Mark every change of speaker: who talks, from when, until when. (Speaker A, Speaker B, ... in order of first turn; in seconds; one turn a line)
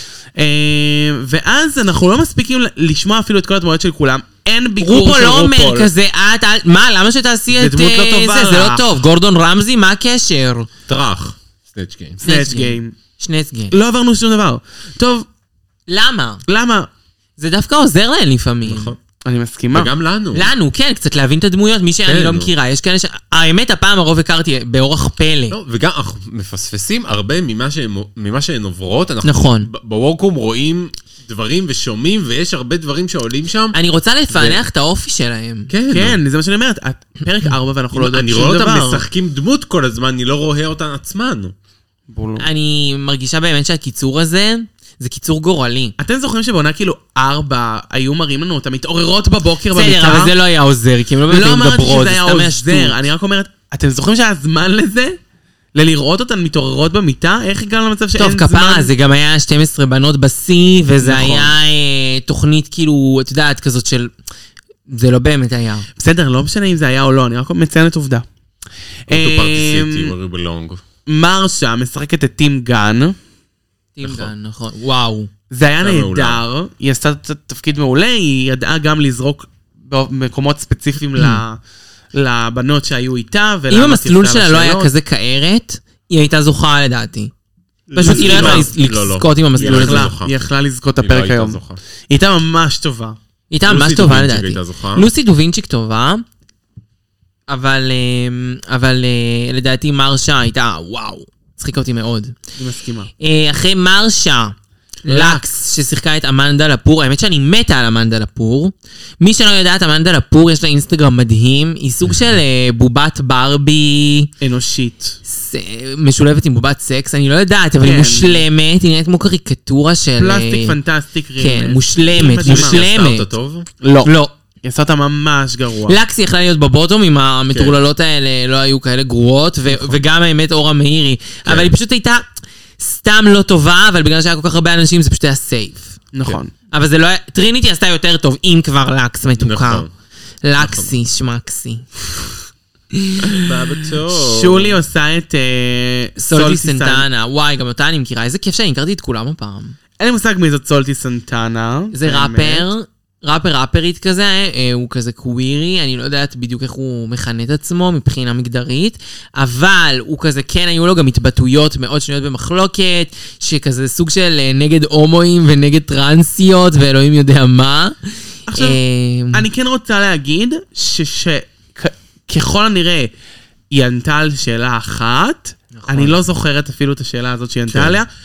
Speaker A: 0.3-5.9
Speaker B: 4.8-10.7
Speaker A: 7.5-8.9
Speaker C: 10.9-12.2
Speaker A: 12.2-12.9
Speaker B: 12.2-13.7
Speaker A: 13.7-15.2
Speaker B: 15.9-16.4
Speaker A: 16.5-16.9
Speaker B: 17.4-18.9
Speaker C: 18.6-19.0
Speaker A: 19.2-19.9
Speaker C: 19.7-20.5
Speaker B: 20.3-25.6
Speaker C: 22.0-22.5
Speaker C: 25.5-33.8
Speaker B: 29.2-29.7
Speaker B: 33.7-35.7
Speaker C: 34.3-34.6
Speaker C: 35.7-36.2
Speaker A: 35.9-39.0
Speaker C: 37.9-41.5
Speaker A: 42.1-42.5
Speaker B: 42.4-45.9
Speaker A: 46.0-50.3
Speaker B: 49.7-53.0
Speaker A: 51.3-55.2
Speaker A: 55.7-58.9
Speaker B: 58.2-64.1
Speaker A: 61.0-61.5
Speaker B: 64.9-65.9
Speaker A: 66.0-68.2
Speaker A: 69.1-70.1
Speaker C: 69.1-70.8
Speaker A: 71.1-73.2
Speaker B: 74.0-75.3
Speaker C: 74.0-74.3
Speaker A: 75.5-81.6
Speaker C: 75.8-76.4
Speaker A: 82.1-84.9
Speaker B: 83.7-87.3
Speaker C: 87.9-90.5
Speaker B: 87.9-90.1
Speaker A: 88.0-88.7
Speaker A: 89.6-93.2
Speaker C: 91.0-91.8
Speaker B: 93.5-96.2
Speaker C: 93.7-95.1
Speaker B: 97.5-102.3
Speaker A: 102.6-103.1
Speaker B: 103.2-114.3
Speaker A: 105.1-105.4
Speaker A: 114.4-115.2
Speaker B: 115.2-120.8
Speaker A: 117.8-118.4
Speaker A: 120.2-122.8
Speaker B: 121.4-123.3
Speaker C: 122.2-123.7
Speaker A: 123.8-126.0
Speaker B: 124.0-124.3
Speaker B: 125.9-132.2
Speaker C: 129.7-130.0
Speaker C: 131.4-131.7
Speaker B: 132.8-136.0
Speaker A: 136.1-136.5
Speaker B: 136.7-139.8
Speaker C: 139.4-139.9
Speaker B: 140.4-141.9
Speaker C: 140.6-140.9
Speaker B: 142.9-143.4
Speaker C: 143.3-144.8
Speaker A: 144.1-147.1
Speaker B: 146.2-149.8
Speaker A: 150.0-152.7
Speaker B: 151.9-168.0
Speaker A: 168.5-168.8
Speaker B: 168.5-169.4
Speaker A: 169.3-173.1
Speaker A: 173.7-178.1
Speaker B: 175.7-176.2
Speaker C: 177.7-178.0